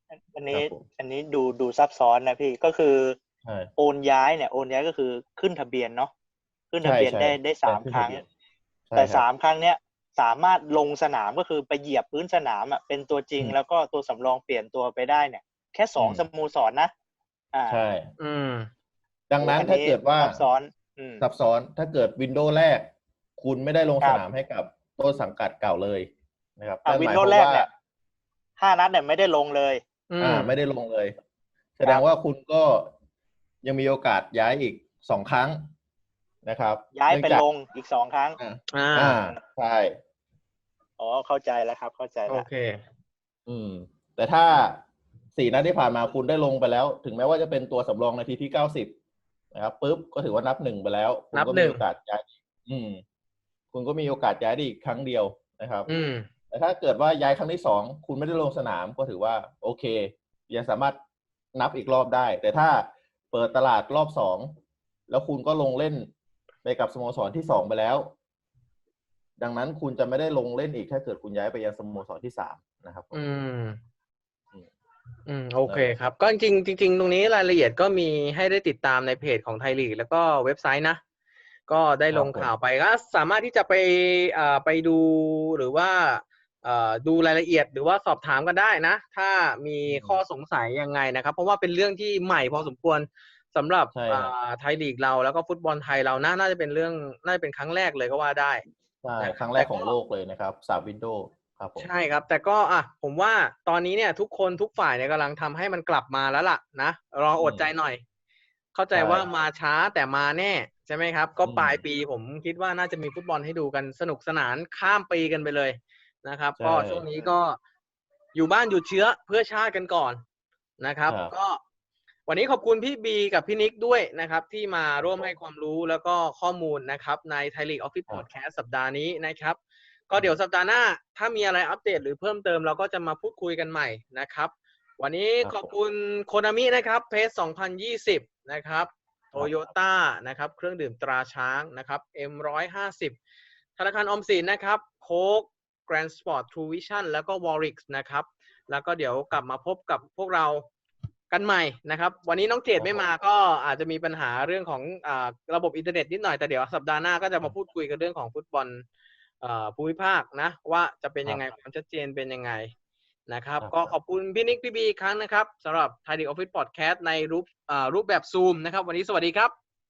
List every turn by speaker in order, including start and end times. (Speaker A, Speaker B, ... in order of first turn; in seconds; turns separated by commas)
Speaker A: 0.3-3.2, Speaker B: 0.5-0.9, Speaker B: 3.4-3.7, Speaker A: 3.8-6.1, Speaker A: 6.7-8.2, Speaker B: 6.8-8.3, Speaker B: 8.9-9.2, Speaker A: 8.9-16.9, Speaker B: 16.0-16.2, Speaker A: 17.5-17.8, Speaker B: 17.7-18.1, Speaker C: 18.2-18.7, Speaker B: 19.3-20.4, Speaker A: 19.4-21.2, Speaker B: 21.2-27.7, Speaker A: 26.9-27.7, Speaker A: 28.6-29.8, Speaker C: 30.1-30.5, Speaker B: 30.2-31.1, Speaker B: 31.8-32.9, Speaker B: 33.6-35.7, Speaker B: 36.4-37.4, Speaker A: 36.9-38.4, Speaker B: 38.4-40.0, Speaker C: 38.7-39.2, Speaker A: 41.0-42.5, Speaker C: 42.3-42.8, Speaker B: 43.5-48.9, Speaker B: 49.5-53.0, Speaker C: 51.3-51.8, Speaker B: 53.7-55.9, Speaker C: 55.9-56.3, Speaker B: 56.5-61.0, Speaker B: 61.5-64.5, Speaker B: 65.1-66.1, Speaker B: 66.6-68.1, Speaker B: 69.4-73.2, Speaker C: 73.1-73.8, Speaker C: 75.3-81.0, Speaker B: 75.7-76.1, Speaker C: 81.7-98.6, Speaker B: 82.1-82.5, Speaker B: 89.8-90.2, Speaker B: 93.9-94.3, Speaker B: 99.0-101.9, Speaker C: 99.2-99.9, Speaker C: 101.8-108.0, Speaker B: 107.4-107.7, Speaker C: 108.7-117.6, Speaker B: 108.9-109.3, Speaker B: 111.4-111.8, Speaker B: 116.6-117.1, Speaker C: 118.3-120.2, Speaker C: 120.8-121.6, Speaker B: 121.1-121.3, Speaker C: 122.3-143.2, Speaker B: 135.4-135.7, Speaker C: 143.8-150.7, Speaker C: 151.3-158.8, Speaker B: 152.8-153.1, Speaker C: 159.4-162.7, Speaker C: 163.3-169.5, Speaker B: 163.6-163.9